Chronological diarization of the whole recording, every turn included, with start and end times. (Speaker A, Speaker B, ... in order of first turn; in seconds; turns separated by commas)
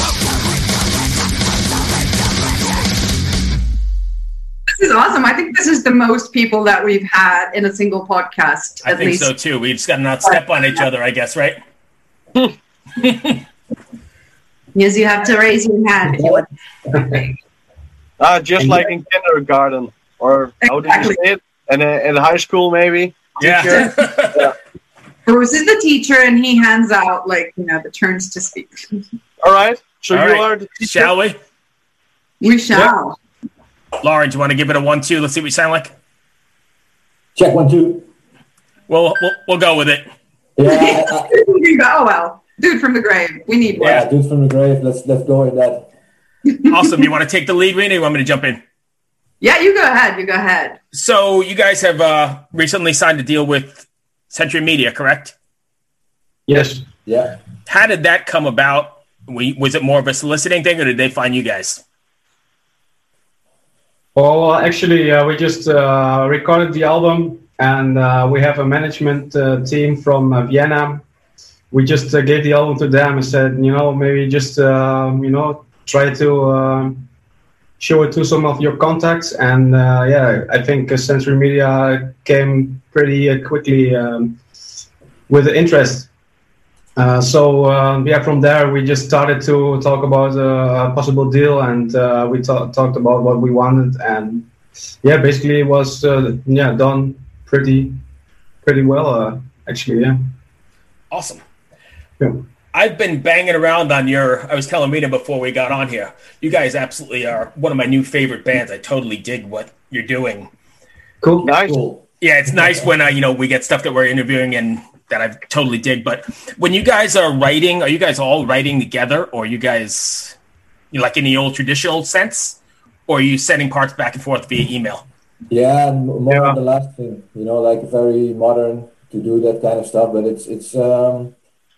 Speaker A: 4.7-9.3, Speaker B: 8.8-11.6, Speaker A: 10.2-10.8, Speaker B: 13.0-13.4, Speaker A: 14.8-17.4, Speaker C: 18.2-24.5, Speaker D: 18.6-18.9, Speaker A: 20.6-21.2, Speaker B: 23.4-24.5, Speaker A: 25.3-28.8, Speaker C: 29.4-31.1, Speaker B: 30.1-31.4, Speaker A: 32.4-33.2, Speaker B: 34.0-35.9, Speaker E: 37.4-38.1, Speaker B: 38.9-40.1, Speaker E: 40.6-41.3, Speaker A: 40.6-44.0, Speaker E: 43.8-45.9, Speaker B: 46.7-48.6, Speaker A: 49.4-50.8, Speaker B: 50.9-55.3, Speaker D: 56.5-56.9, Speaker E: 57.0-57.4, Speaker B: 57.7-61.8, Speaker D: 64.2-71.0, Speaker D: 71.7-77.1, Speaker D: 77.8-84.4, Speaker D: 85.3-86.1, Speaker D: 87.0-94.5, Speaker D: 95.0-98.0, Speaker D: 98.6-100.2, Speaker B: 101.1-101.4, Speaker D: 102.2-102.5, Speaker B: 102.7-110.5, Speaker D: 111.2-111.5, Speaker E: 111.5-112.0, Speaker C: 111.5-111.8, Speaker B: 112.2-120.4, Speaker B: 120.9-125.0, Speaker E: 125.5-131.3, Speaker C: 126.3-126.6